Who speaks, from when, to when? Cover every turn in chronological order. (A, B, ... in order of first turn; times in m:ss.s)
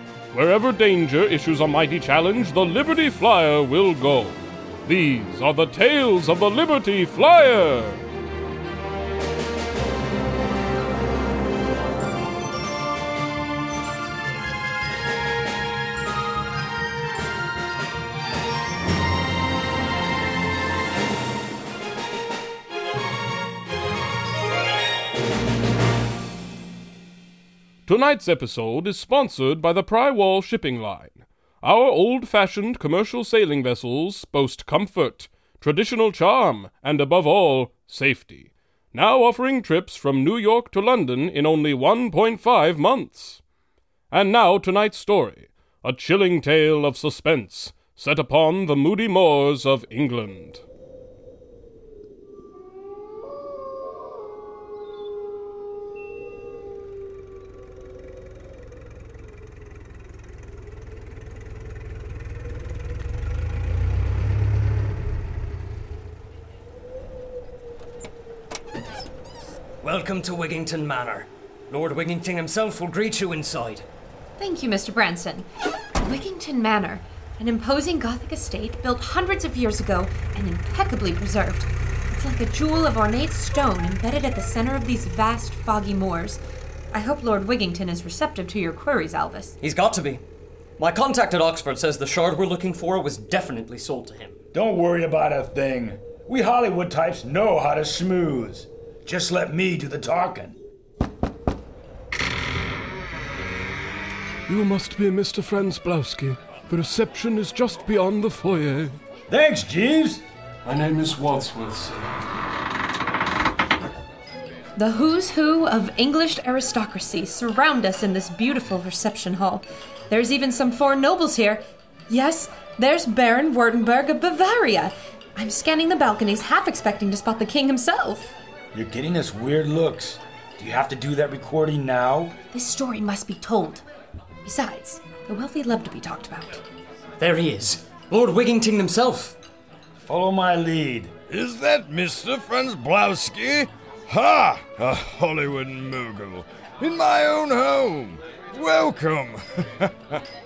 0:00.3-0:08.0 A
0:27.9-0:43.4 A
0:44.1-0:50.6 A
1:09.8-1:13.9 B
1:14.4-1:26.4 C
1:26.9-1:29.6 C
1:29.6-1:30.2 B
1:30.8-1:34.4 B
1:34.5-1:40.6 D
1:44.5-1:49.0 A
1:49.3-1:50.2 D
1:50.6-1:52.2 A
1:54.8-2:08.3 C
2:08.7-2:12.4 D
2:12.5-2:13.8 C
2:14.4-2:16.6 C
2:17.2-2:19.4 B
2:20.0-2:21.1 D
2:21.3-2:30.2 E